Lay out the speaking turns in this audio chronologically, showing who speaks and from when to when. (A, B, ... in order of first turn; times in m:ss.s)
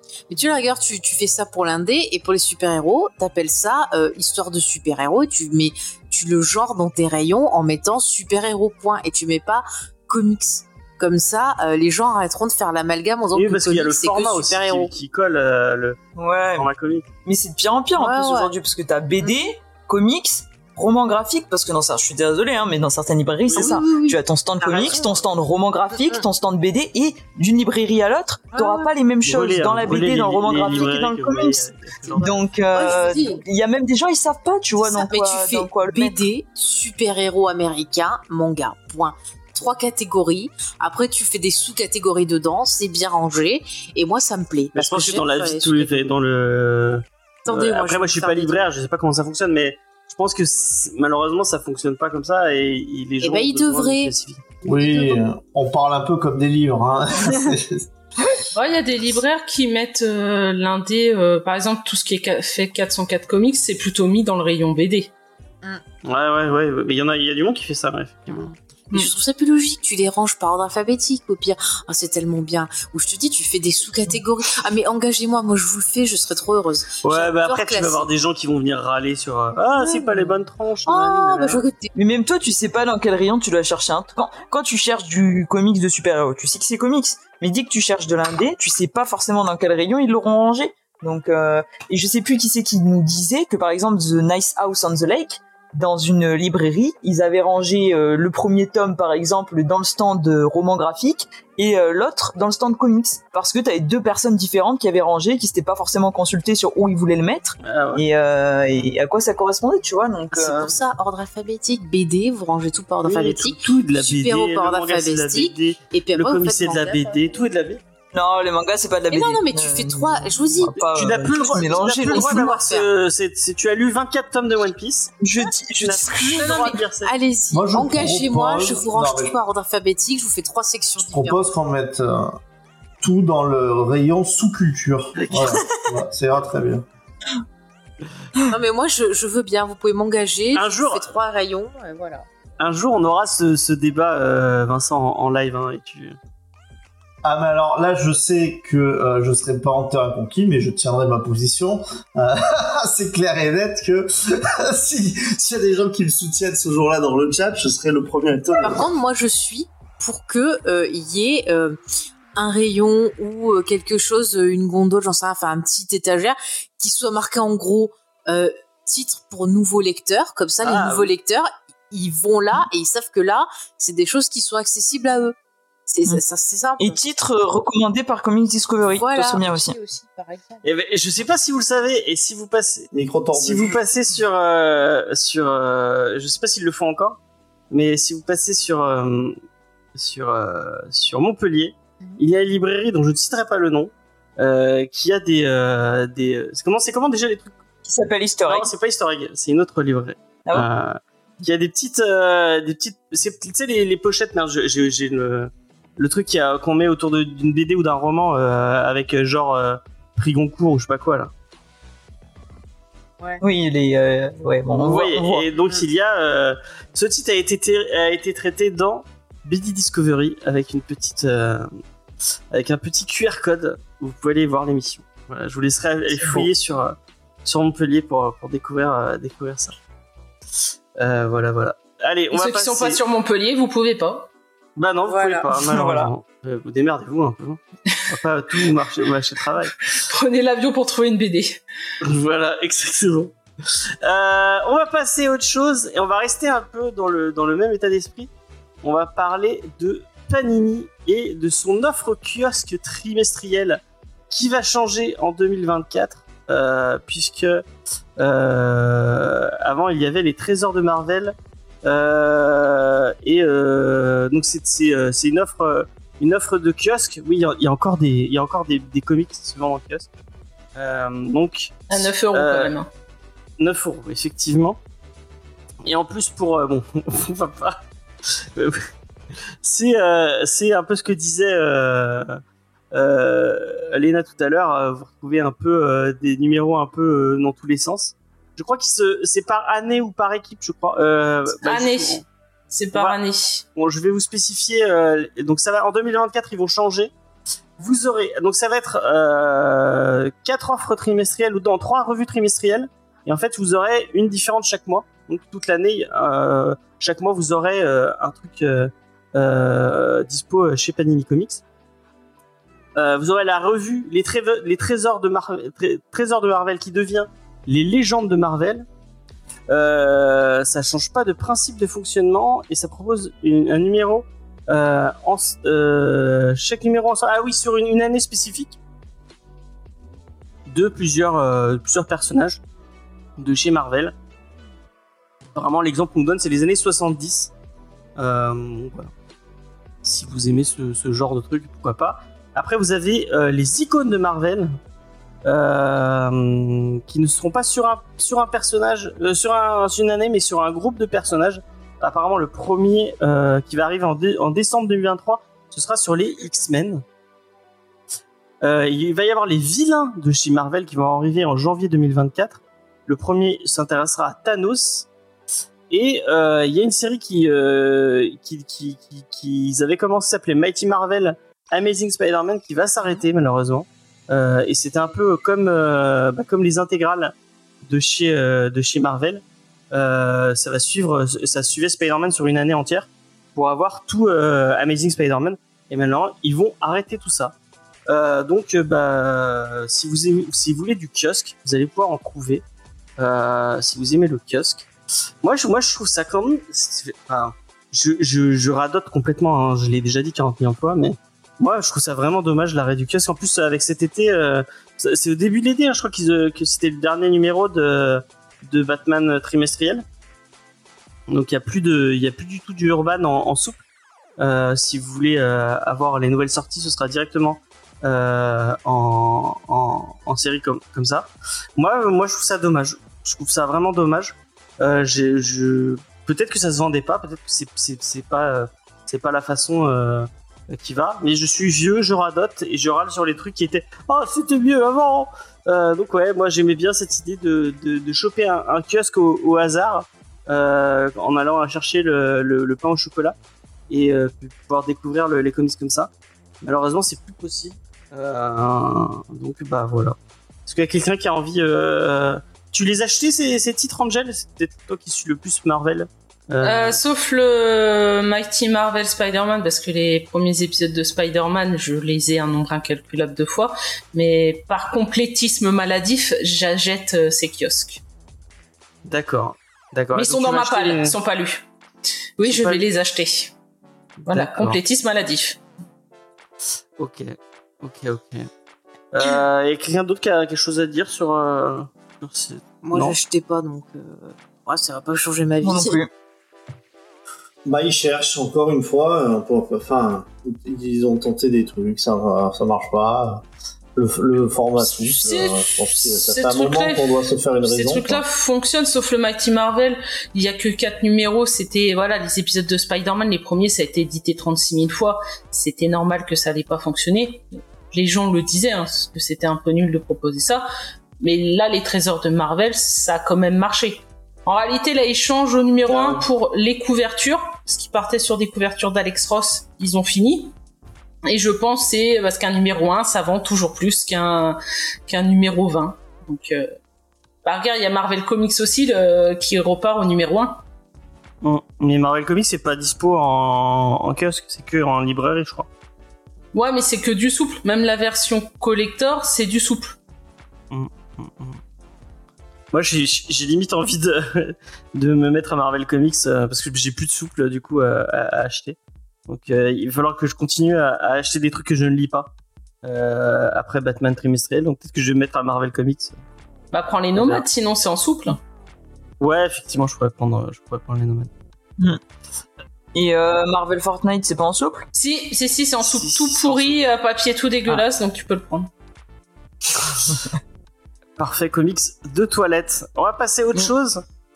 0:00.3-0:14.9 A
0:13.3-0:16.0 B
0:16.2-0:16.7 C
0:16.6-0:17.0 B
0:17.2-0:31.6 C
0:18.0-0:18.5 A
0:23.5-0:23.8 B
0:23.5-0:25.2 A
0:26.0-0:26.2 A
0:28.5-0:28.9 A
0:29.2-0:32.4 B
0:32.2-0:33.4 A
0:32.2-0:36.2 C
0:34.8-0:46.0 A
0:44.7-0:54.4 B
0:47.4-0:48.6 A
0:53.2-0:54.1 A
0:54.6-0:57.9 D
0:54.8-0:55.2 A
0:58.5-1:05.1 E
1:06.0-1:08.5 B
1:08.3-1:18.1 A
1:17.0-1:21.6 B
1:19.8-1:21.9 A
1:21.9-1:50.7 C
1:47.6-1:48.0 B
1:50.3-1:57.2 A
1:53.0-1:57.8 B
1:58.1-2:02.5 C
1:59.1-2:02.9 A
2:00.9-2:07.1 B
2:05.2-2:06.8 C
2:06.4-2:06.7 E
2:06.6-2:11.4 A
2:07.5-2:09.3 D
2:11.0-2:12.4 D
2:13.0-2:16.8 D
2:15.2-2:15.6 B
2:18.5-2:22.2 A
2:20.5-2:21.1 B
2:22.6-2:26.2 B
2:27.2-2:38.9 D
2:38.6-2:41.8 A
2:42.4-2:55.4 A
2:50.6-2:51.1 B
2:55.9-2:57.0 A
2:56.8-2:59.8 C
2:58.9-3:00.6 A
3:00.6-3:07.2 B
3:02.9-3:03.8 D
3:07.7-3:09.4 B
3:09.9-3:17.6 B
3:17.8-3:18.7 C
3:18.4-3:31.3 B
3:33.4-3:35.5 C
3:34.7-3:41.7 B
3:42.5-3:49.7 B
3:46.2-3:46.5 C
3:51.0-3:53.0 B
3:52.3-3:54.3 E
3:54.8-3:59.9 B
3:55.0-3:55.5 A
3:55.6-3:56.1 C
3:59.9-4:01.6 E
4:02.0-4:08.3 B
4:08.8-4:17.6 B
4:18.2-4:30.1 B
4:30.8-4:32.7 B
4:31.9-4:32.9 E
4:33.6-4:34.8 B
4:35.8-4:38.9 B
4:39.6-4:42.4 B
4:42.9-4:52.2 B
4:51.5-4:53.6 E
4:53.8-4:57.1 B
4:57.8-5:11.6 B
5:13.0-5:18.8 B
5:19.7-5:28.8 B
5:30.7-5:32.6 B
5:33.4-5:34.1 B
5:35.5-5:37.5 B
5:38.2-5:39.1 B
5:40.0-5:44.8 B
5:45.4-5:57.0 B
5:58.6-6:05.1 B
6:05.9-6:27.6 B
6:28.1-6:32.6 B
6:33.2-6:34.9 B
6:35.4-6:50.0 B
6:51.3-6:53.8 B
6:54.4-7:23.3 B
7:23.9-7:26.1 B
7:26.6-7:37.0 B
7:36.6-7:48.0 E
7:49.0-7:51.1 B
7:50.1-7:51.6 E
7:52.4-7:53.5 E
7:52.4-7:52.8 B
7:54.2-7:54.8 B
7:54.3-7:55.6 E
7:57.0-7:58.5 B
7:59.1-8:03.2 B
8:02.8-8:06.0 A
8:05.6-8:06.1 C
8:07.6-8:13.4 D
8:14.0-8:18.2 D
8:14.8-8:17.0 E
8:17.6-8:30.7 E
8:31.2-8:40.5 E
8:35.8-8:36.2 B
8:41.2-8:46.7 E
8:47.4-8:50.6 E
8:51.4-8:55.7 B
8:56.5-9:00.0 E
9:00.7-9:01.6 B
9:02.7-9:08.8 B
9:09.3-9:12.3 B
9:12.8-9:16.2 B
9:16.7-9:18.4 E
9:17.1-9:17.4 B
9:19.2-9:21.3 B
9:22.9-9:24.9 C
9:24.9-9:28.7 E
9:25.8-9:26.8 B
9:31.2-9:34.0 B